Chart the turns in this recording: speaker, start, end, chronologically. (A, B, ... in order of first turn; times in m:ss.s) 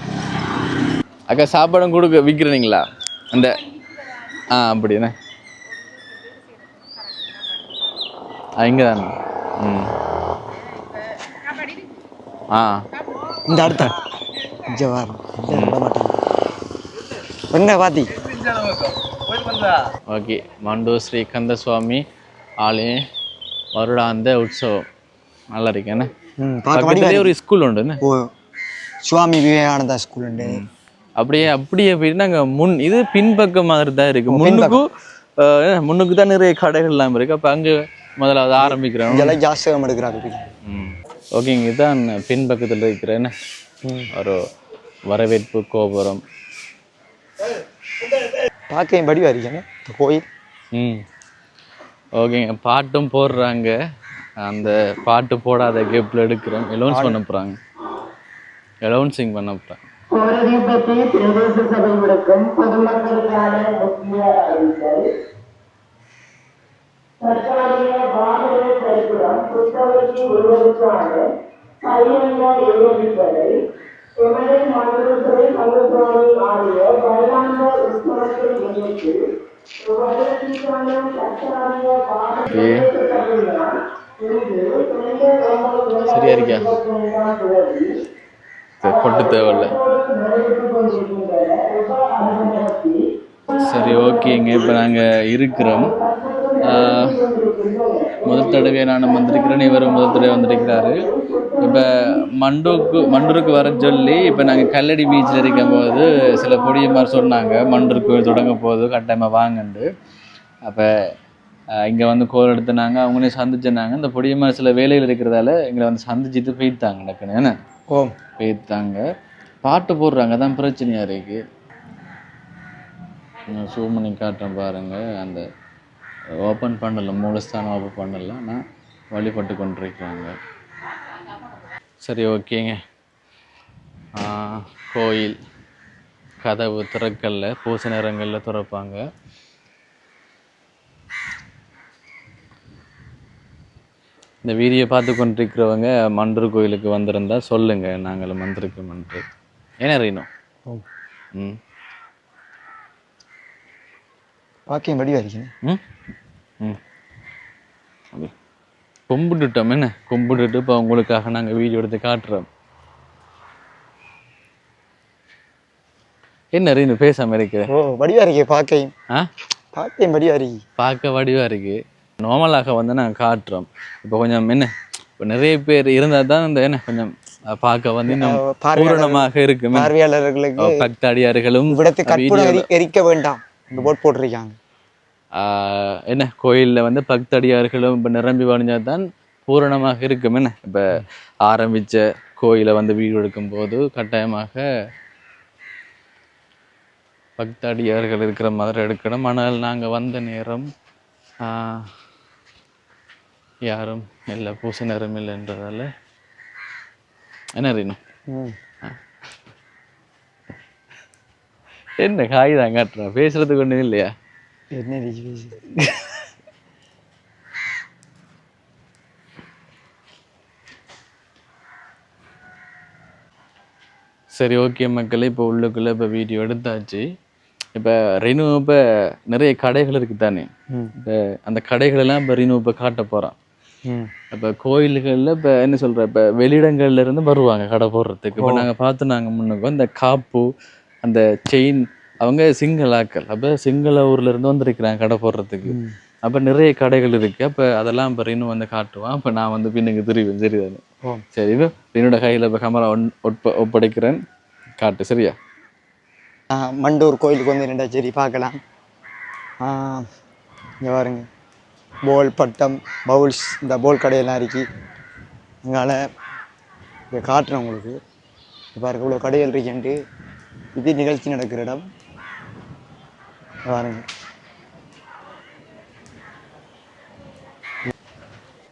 0:01.3-0:03.6 A
0:04.5-0:05.1 A
0:08.6-0:09.9 A
0:12.5-0:12.8 A
0:13.5-0:14.0 B
0:14.7-0:16.2 B
0:15.5-0:15.8 A
0:17.5-0:18.1 B
0:20.1-0:22.0 A
0:22.6-0:23.0 A
0:23.7-0:24.8 A
0:25.5-0:26.1 A
0:26.4-0:27.3 B
0:26.7-0:28.0 A
0:28.0-0:28.3 B
0:29.0-0:30.6 B
0:30.4-0:39.4 A
0:34.3-0:34.8 B
0:38.6-0:40.5 B
0:40.6-0:43.3 A
0:43.8-0:44.1 B
0:44.1-0:44.4 A
0:45.1-0:46.2 A
0:48.7-0:50.3 B
0:50.7-0:51.0 A
0:52.2-0:53.8 A
0:54.4-0:57.6 A
0:56.9-0:57.2 B
0:58.8-0:59.8 A
1:00.1-1:05.1 C
1:07.2-1:11.3 C
1:11.8-1:13.6 C
1:14.2-1:19.2 C
1:19.8-1:27.9 C
1:22.5-1:22.9 A
1:26.1-1:26.7 A
1:28.8-1:29.7 A
1:28.8-1:33.0 C
1:33.6-1:35.9 A
1:35.7-1:42.1 C
1:36.6-1:37.2 A
1:38.2-1:41.1 A
1:41.6-1:49.9 A
1:50.6-1:51.1 A
1:51.8-1:57.6 A
1:57.9-1:58.1 B
1:58.4-1:59.0 A
1:59.6-2:01.4 A
2:03.5-2:05.4 A
2:06.4-2:10.3 A
2:12.0-2:12.8 A
2:14.1-2:15.4 A
2:16.4-2:19.0 A
2:24.4-2:29.2 A
2:29.8-2:30.3 A
2:34.7-2:35.5 B
2:39.1-2:42.5 A
2:46.5-2:47.7 A
2:47.7-2:48.9 B
2:49.7-2:50.6 B
2:50.8-2:59.9 A
2:58.1-3:00.9 B
3:00.6-3:02.7 A
3:01.7-3:04.6 B
3:05.3-3:14.6 A
3:17.4-3:20.7 A
3:21.4-3:21.9 A
3:23.6-3:25.9 A
3:27.5-3:28.0 A
3:28.3-3:28.5 B
3:32.0-3:34.1 A
3:34.7-3:35.6 B
3:35.8-3:36.1 A
3:44.3-3:47.0 A
3:47.7-3:53.3 A
3:53.8-3:54.1 B
3:54.3-4:00.5 A
3:58.4-3:58.7 B
4:01.0-4:10.8 A
4:05.6-4:05.9 B
4:11.3-4:14.2 A
4:14.8-4:15.4 A
4:16.5-4:18.6 B
4:19.6-4:20.1 B
4:20.8-4:21.3 B
4:22.0-4:24.7 B
4:25.6-4:26.0 B
4:27.1-4:28.0 B
4:28.7-4:30.0 B
4:30.7-4:31.9 B
4:33.6-4:34.0 B